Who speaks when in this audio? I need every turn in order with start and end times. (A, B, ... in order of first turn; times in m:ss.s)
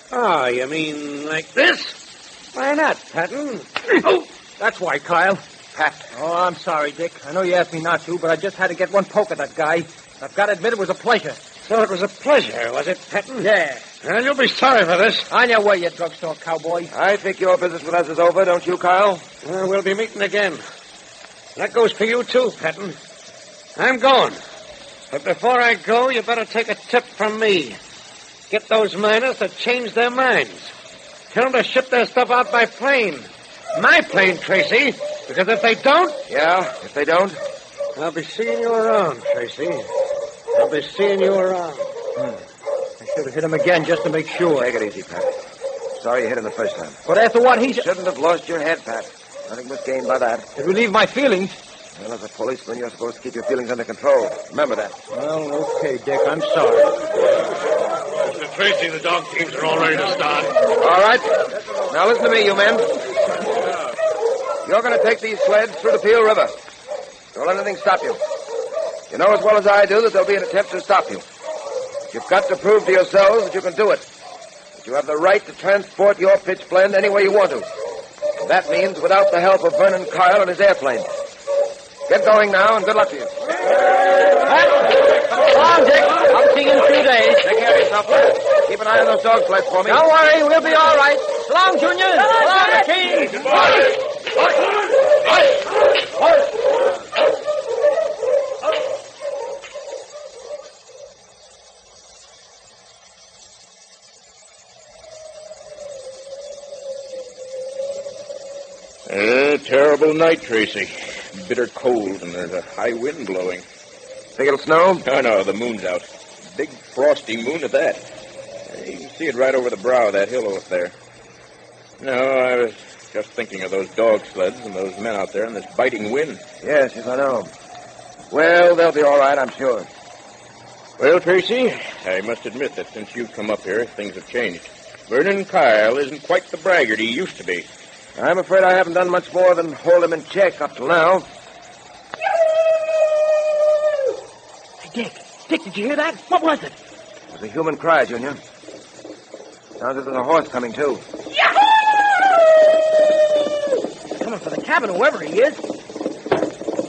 0:00.1-0:02.0 A
0:02.5-0:03.8 A
0:04.0-0:11.4 B
0:11.6-0:13.5 A
0:13.4-0:13.8 B
0:14.0-0:15.3 A
0:15.3-0:16.9 B
0:16.9-0:19.2 C
0:19.4-0:20.6 A
0:21.6-0:23.0 A
0:23.8-0:24.4 A
0:25.1-0:27.8 A
0:28.5-0:30.7 A
0:31.3-0:36.2 A
0:36.3-0:37.4 C
0:38.0-0:39.9 A
0:40.5-0:41.9 A
0:43.0-0:44.7 B
0:44.4-0:45.3 C
0:46.0-0:47.0 C
0:47.1-0:47.9 B
0:47.7-0:50.5 C
0:50.6-0:51.6 B
0:52.0-0:55.0 C
0:55.1-0:57.0 B
0:58.2-1:00.5 A
1:00.8-1:01.3 C
1:01.9-1:02.9 C
1:04.6-1:06.5 C
1:07.3-1:08.2 C
1:09.1-1:11.2 C
1:12.1-1:14.0 C
1:14.8-1:17.7 C
1:18.4-1:21.1 C
1:22.1-1:23.3 C
1:25.5-1:27.4 B
1:26.7-1:27.4 D
1:27.4-1:30.0 C
1:29.9-1:33.4 B
1:32.2-1:33.0 D
1:49.1-1:53.6 E
1:54.4-1:55.0 C
1:55.0-1:58.0 E
1:58.7-2:00.9 E
2:02.0-2:06.4 E
2:06.6-2:07.5 C
2:08.3-2:09.9 C
2:11.0-2:17.7 E
2:18.2-2:21.3 C
2:24.8-2:26.7 D
2:27.3-2:28.4 C
2:29.8-2:31.0 C
2:34.2-2:35.6 D